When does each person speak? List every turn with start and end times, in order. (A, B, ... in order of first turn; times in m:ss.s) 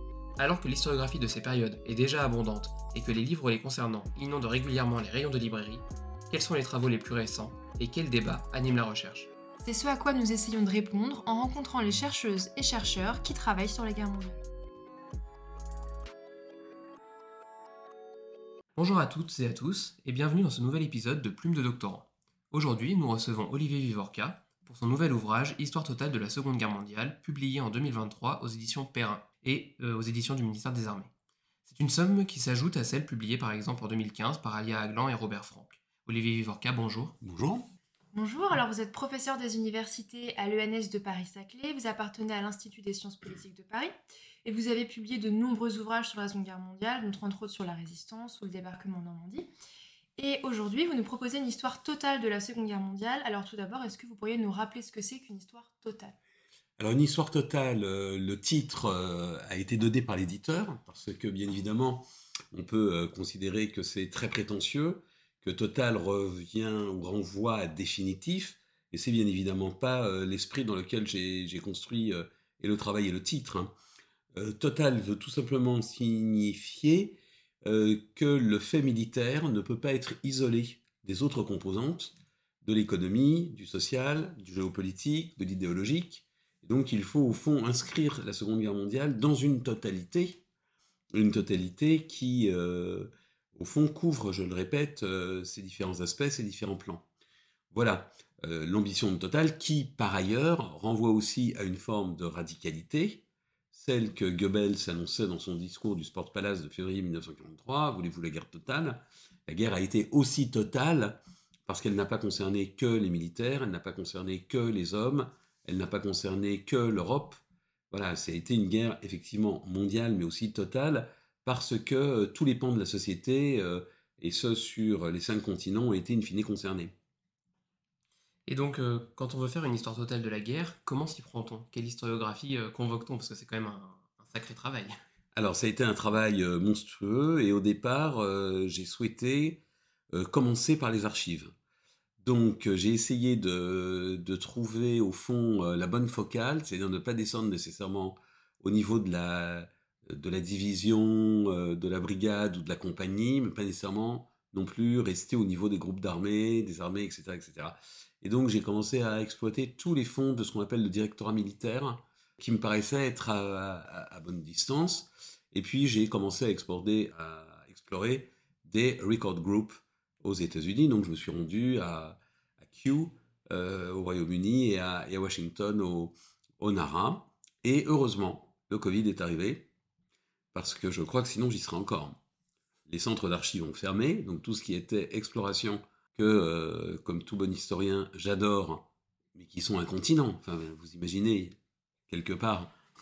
0:00.4-0:09.3 A
0:09.6-0:14.4 B
0:18.8-0:31.1 A
0:31.7-0:37.2 A
0:37.2-0:37.7 C
0:38.1-0:43.9 B
0:44.4-0:49.5 B
0:50.2-0:56.2 B
0:56.8-1:13.7 C
1:14.3-1:30.4 C
1:31.1-1:37.1 C
1:37.7-2:06.9 C
2:08.5-2:15.0 A
2:15.3-2:19.6 C
2:20.1-2:21.5 C
2:22.2-2:59.7 C
3:00.5-3:02.2 C
3:02.9-3:11.6 C
3:12.1-3:12.7 C